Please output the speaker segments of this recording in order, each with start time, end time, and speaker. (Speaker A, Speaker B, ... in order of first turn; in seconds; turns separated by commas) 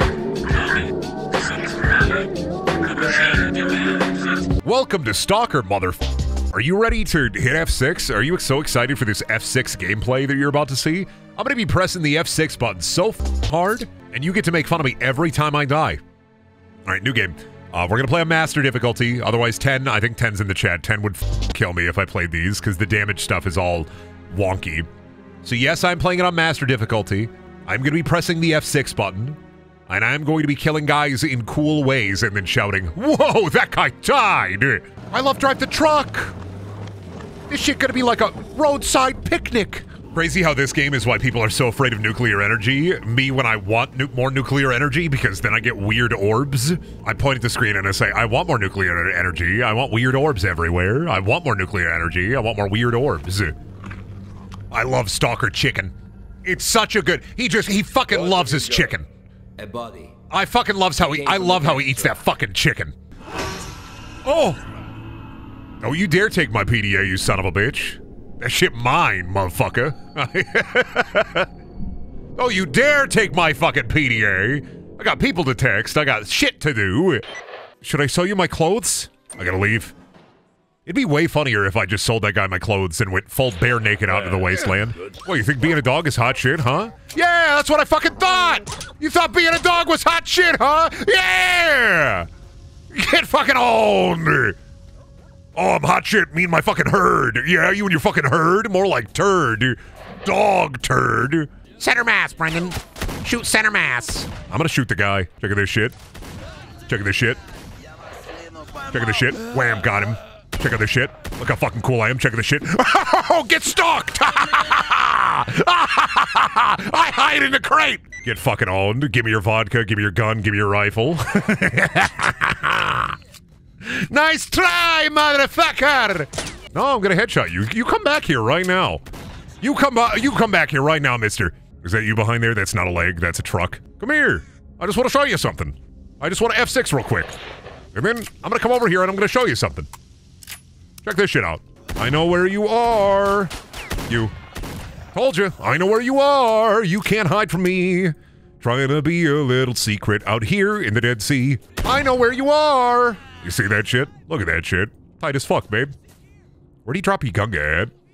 Speaker A: 0.5-4.4, Speaker B: 4.6-16.0, Speaker B: 16.9-24.9, Speaker B: 25.4-36.4, Speaker B: 37.5-53.5, Speaker B: 54.7-55.9, Speaker B: 56.5-59.1, Speaker A: 58.1-58.9, Speaker A: 59.6-60.2, Speaker B: 60.3-63.0, Speaker A: 61.2-62.1, Speaker B: 64.2-64.6, Speaker B: 65.8-71.5, Speaker B: 72.4-77.2, Speaker B: 77.8-79.9, Speaker B: 80.9-92.3, Speaker A: 84.1-85.2, Speaker B: 92.9-94.6, Speaker B: 95.5-106.0, Speaker B: 106.9-107.4, Speaker B: 108.9-123.2, Speaker B: 123.8-129.0, Speaker B: 129.6-137.3, Speaker B: 137.9-139.9, Speaker B: 141.0-143.5, Speaker B: 144.1-144.3, Speaker B: 145.1-155.9, Speaker B: 156.8-157.9